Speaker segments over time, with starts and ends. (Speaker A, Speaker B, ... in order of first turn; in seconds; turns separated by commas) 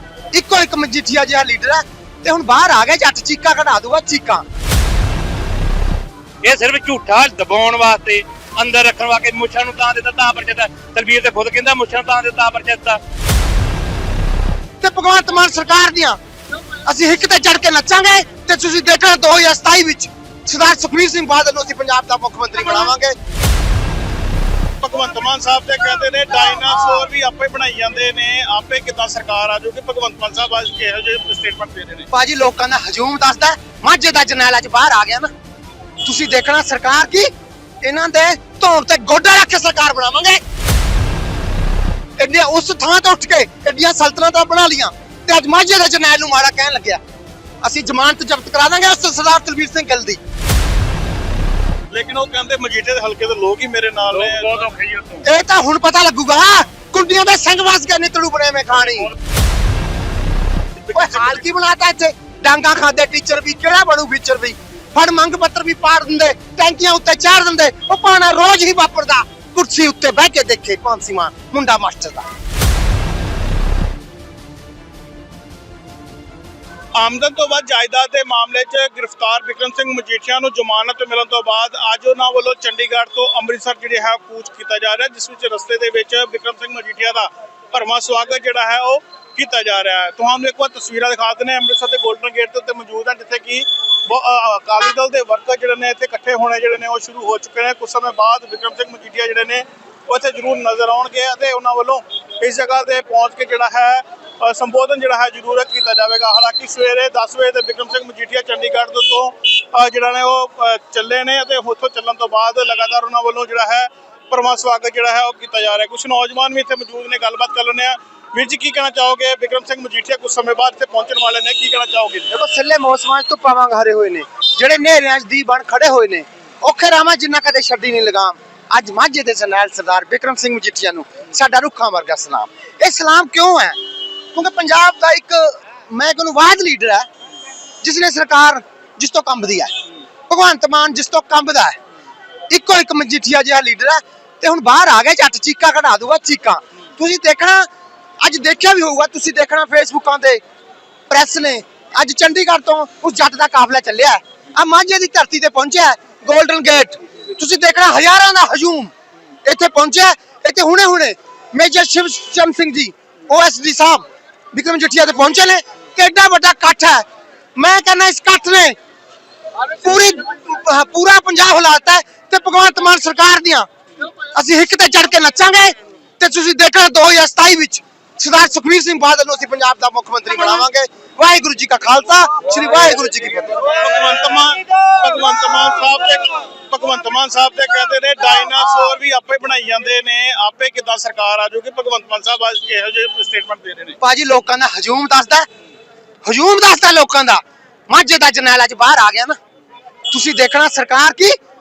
Speaker A: 0.3-4.5, Speaker B: 6.4-13.0, Speaker A: 14.8-16.2, Speaker A: 16.9-23.1, Speaker C: 24.8-32.1, Speaker A: 32.1-35.3, Speaker A: 36.0-37.3, Speaker A: 37.8-40.4, Speaker A: 42.2-47.0, Speaker A: 47.6-50.2, Speaker C: 51.9-54.7, Speaker B: 54.3-55.2, Speaker A: 55.2-59.1, Speaker C: 60.9-61.4, Speaker A: 60.9-72.3, Speaker C: 77.0-122.3, Speaker A: 122.3-137.1, Speaker A: 137.8-139.7, Speaker A: 140.3-141.8, Speaker A: 142.5-147.7, Speaker A: 148.2-150.4, Speaker A: 151.1-158.9, Speaker A: 159.4-167.0, Speaker A: 167.6-168.8, Speaker A: 169.8-173.7, Speaker A: 174.3-183.6, Speaker C: 183.7-194.0, Speaker A: 194.0-195.5, Speaker A: 196.3-199.4, Speaker A: 200.1-201.4